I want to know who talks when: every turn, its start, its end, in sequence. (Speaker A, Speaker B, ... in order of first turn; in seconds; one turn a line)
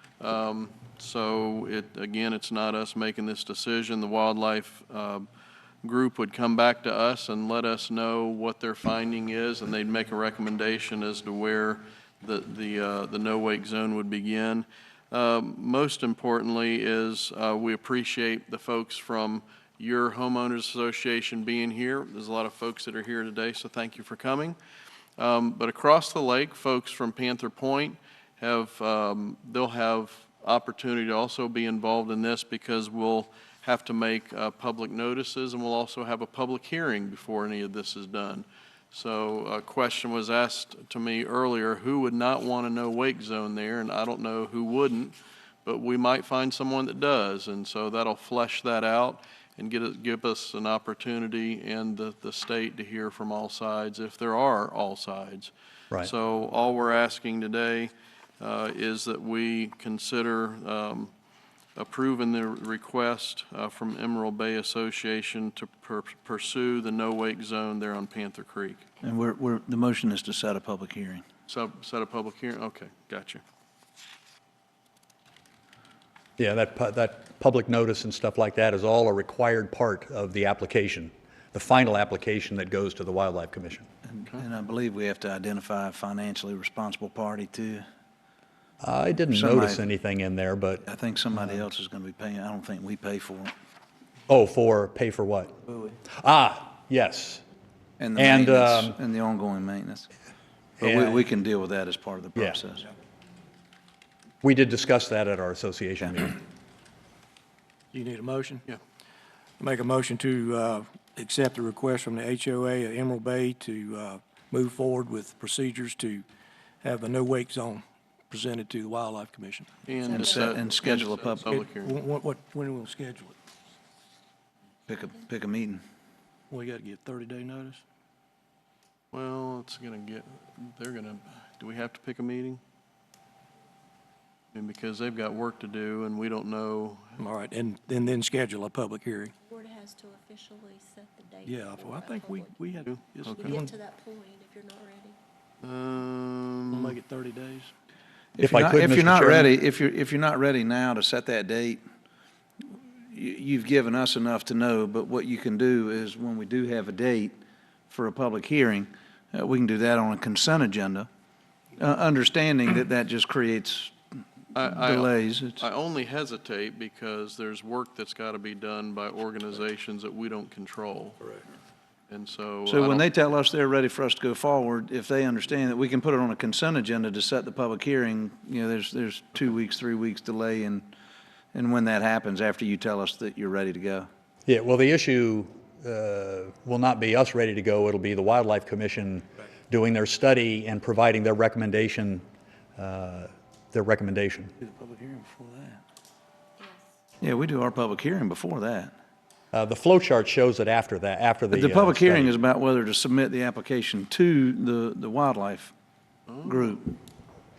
Speaker A: 0.2-5.3
Speaker A: 5.8-24.6
Speaker A: 25.2-61.1
Speaker A: 61.8-68.8
Speaker B: 69.0-71.2
Speaker A: 71.5-73.4
Speaker C: 76.4-83.9
Speaker B: 84.1-87.8
Speaker C: 88.8-90.8
Speaker B: 89.3-89.8
Speaker B: 90.8-93.5
Speaker C: 91.3-91.6
Speaker C: 94.3-97.4
Speaker B: 98.0-100.1
Speaker C: 98.2-99.0
Speaker C: 100.8-101.2
Speaker B: 100.8-102.9
Speaker C: 104.4-106.4
Speaker D: 107.9-108.6
Speaker D: 109.6-116.2
Speaker D: 116.8-119.7
Speaker A: 119.8-122.0
Speaker E: 120.0-120.6
Speaker B: 120.1-121.6
Speaker D: 121.6-123.4
Speaker B: 124.9-125.8
Speaker D: 126.5-127.8
Speaker A: 129.1-132.6
Speaker A: 134.5-137.1
Speaker D: 137.2-139.3
Speaker E: 139.4-142.6
Speaker D: 141.4-143.7
Speaker A: 142.8-143.6
Speaker E: 143.4-145.2
Speaker A: 145.6-146.9
Speaker D: 146.7-147.7
Speaker B: 148.3-151.8
Speaker C: 148.4-149.5
Speaker B: 152.7-157.3
Speaker B: 157.9-161.1
Speaker B: 161.8-163.9
Speaker A: 164.5-171.3
Speaker B: 164.7-165.6
Speaker A: 172.1-173.1
Speaker B: 172.7-180.9
Speaker B: 181.5-184.1
Speaker C: 184.4-192.2
Speaker C: 192.8-194.5
Speaker B: 194.6-195.8
Speaker E: 196.6-196.9
Speaker B: 197.2-198.9
Speaker C: 199.5-202.3
Speaker B: 201.5-205.7
Speaker A: 206.3-206.7
Speaker B: 206.4-206.9